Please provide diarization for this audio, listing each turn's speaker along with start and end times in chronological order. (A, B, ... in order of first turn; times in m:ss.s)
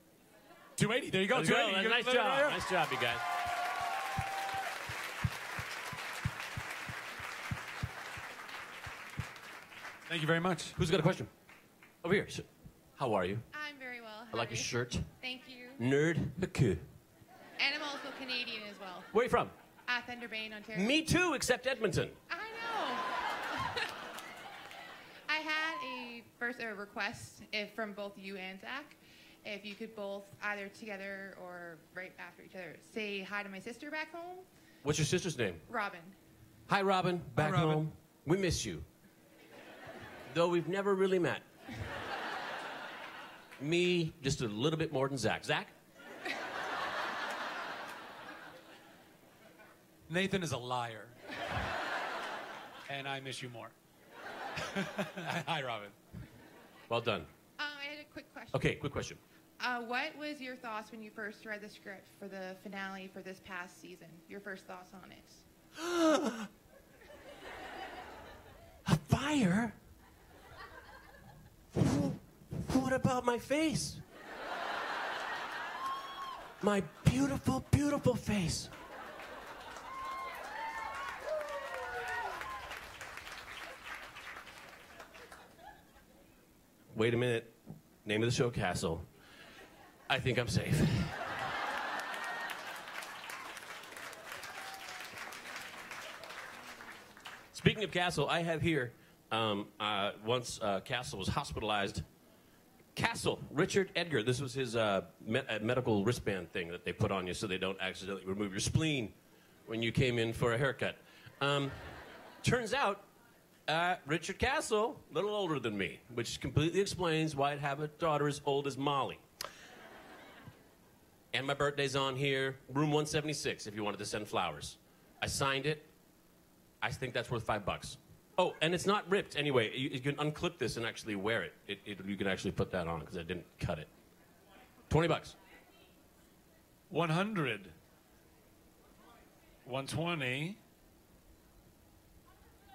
0:00.8-0:02.6 A
0:01.3-0:03.2 B
0:10.1-0:10.8 A
0:10.8-0:11.3 B
0:12.0-0:12.4 B
0:13.0-0:13.4 B
0:13.5-0:15.8 C
0:14.3-0:15.1 B
0:15.8-0:16.9 B
0:17.6-0:19.1 C
0:19.1-0:19.5 B
0:19.9-0:21.0 C
0:20.7-0:22.2 B
0:22.3-0:23.8 C
0:25.3-0:34.4 C
0:34.8-0:35.6 B
0:35.7-0:36.1 C
0:36.7-0:38.8 B
0:37.3-0:37.8 A
0:40.3-0:41.4 B
0:43.6-0:45.7 B
0:50.1-0:51.1 A
0:52.9-0:53.7 A
0:54.6-0:56.0 A
0:56.9-0:57.3 B
0:57.6-0:58.8 C
0:58.5-0:59.2 B
0:59.6-1:05.4 C
1:05.8-1:06.5 B
1:08.8-1:09.8 B
1:11.7-1:14.0 B
1:16.6-1:18.7 B
1:26.9-1:29.1 B
1:30.1-1:31.3 B
1:37.5-1:42.0 B
1:42.9-1:49.1 B
1:49.7-1:53.0 B
1:53.7-1:59.2 B
2:01.3-2:05.9 B
2:06.8-2:13.9 B
2:14.9-2:15.4 B
2:16.9-2:17.8 A
2:19.6-2:20.6 A